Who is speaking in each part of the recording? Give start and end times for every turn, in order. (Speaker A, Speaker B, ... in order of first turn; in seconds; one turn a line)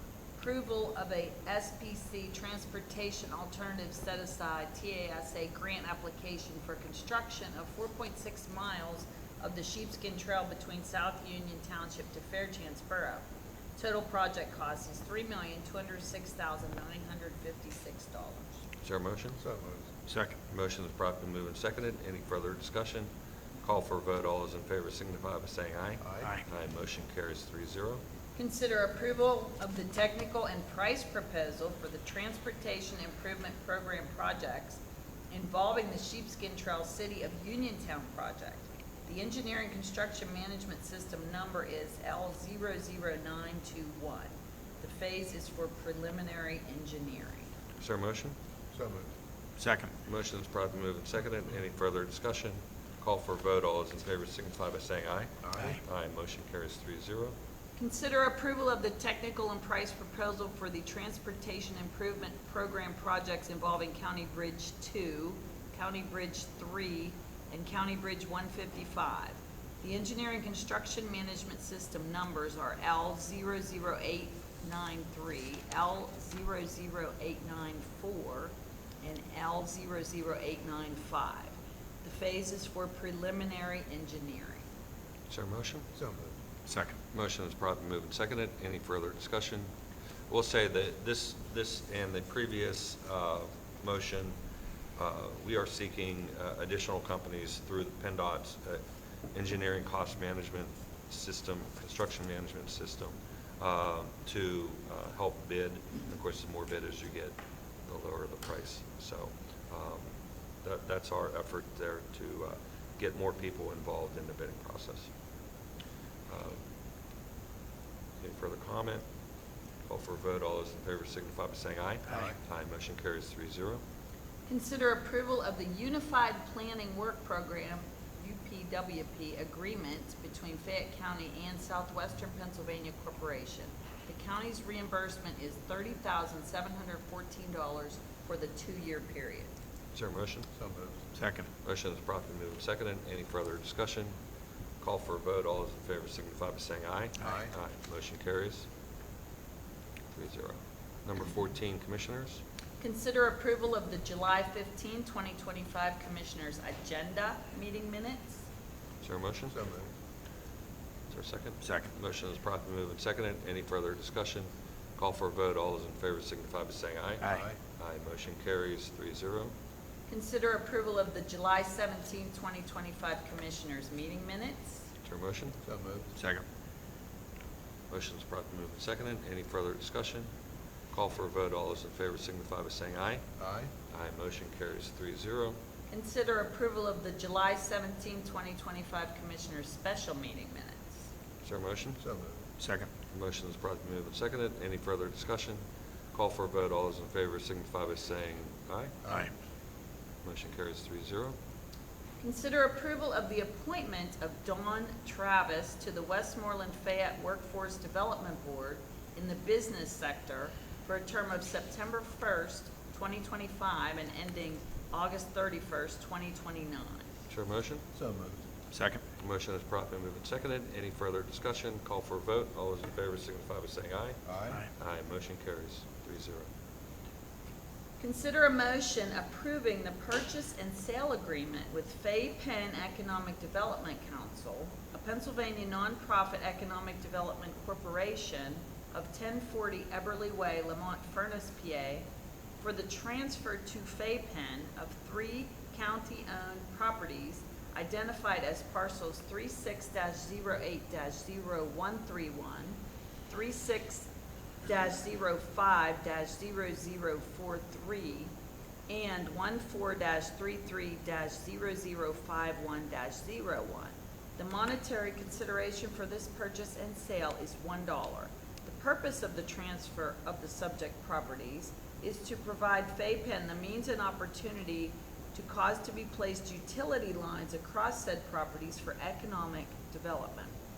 Speaker A: 0.4-18.5
Speaker B: 18.8-19.4
Speaker C: 19.4-19.9
Speaker D: 20.1-20.4
Speaker B: 20.5-23.1
Speaker B: 23.6-28.0
Speaker C: 26.0-26.4
Speaker A: 28.4-47.5
Speaker B: 47.8-48.4
Speaker C: 48.7-49.1
Speaker D: 49.6-49.9
Speaker B: 50.0-57.4
Speaker C: 55.4-55.8
Speaker A: 57.8-84.7
Speaker B: 85.3-85.9
Speaker C: 86.0-86.3
Speaker D: 86.7-87.0
Speaker B: 87.1-89.7
Speaker B: 90.3-94.4
Speaker B: 95.0-98.8
Speaker B: 99.3-110.1
Speaker B: 110.6-115.1
Speaker B: 116.3-116.6
Speaker B: 118.2-119.0
Speaker B: 119.9-123.8
Speaker C: 122.1-122.4
Speaker A: 124.5-139.5
Speaker B: 139.9-140.5
Speaker C: 140.6-141.0
Speaker D: 141.2-141.5
Speaker B: 141.6-144.2
Speaker B: 144.8-148.7
Speaker C: 147.2-147.5
Speaker B: 150.1-152.4
Speaker A: 152.8-158.4
Speaker B: 159.0-159.6
Speaker C: 159.5-159.9
Speaker B: 161.1-169.5
Speaker D: 161.6-161.9
Speaker C: 167.3-167.6
Speaker A: 170.1-174.8
Speaker B: 175.0-175.6
Speaker C: 175.7-176.1
Speaker D: 176.2-176.4
Speaker B: 177.9-180.3
Speaker B: 180.9-183.2
Speaker C: 183.4-183.7
Speaker B: 183.9-185.6
Speaker A: 185.9-191.0
Speaker B: 191.4-192.0
Speaker C: 192.0-192.4
Speaker D: 192.6-192.9
Speaker B: 193.1-195.6
Speaker B: 196.1-199.0
Speaker B: 200.2-201.4
Speaker A: 202.2-217.1
Speaker B: 217.3-217.8
Speaker C: 217.9-218.4
Speaker D: 218.7-219.0
Speaker B: 219.2-224.2
Speaker C: 224.3-224.6
Speaker B: 224.8-226.5
Speaker A: 228.0-242.1
Speaker A: 242.6-254.1
Speaker A: 254.7-258.3
Speaker A: 258.9-280.6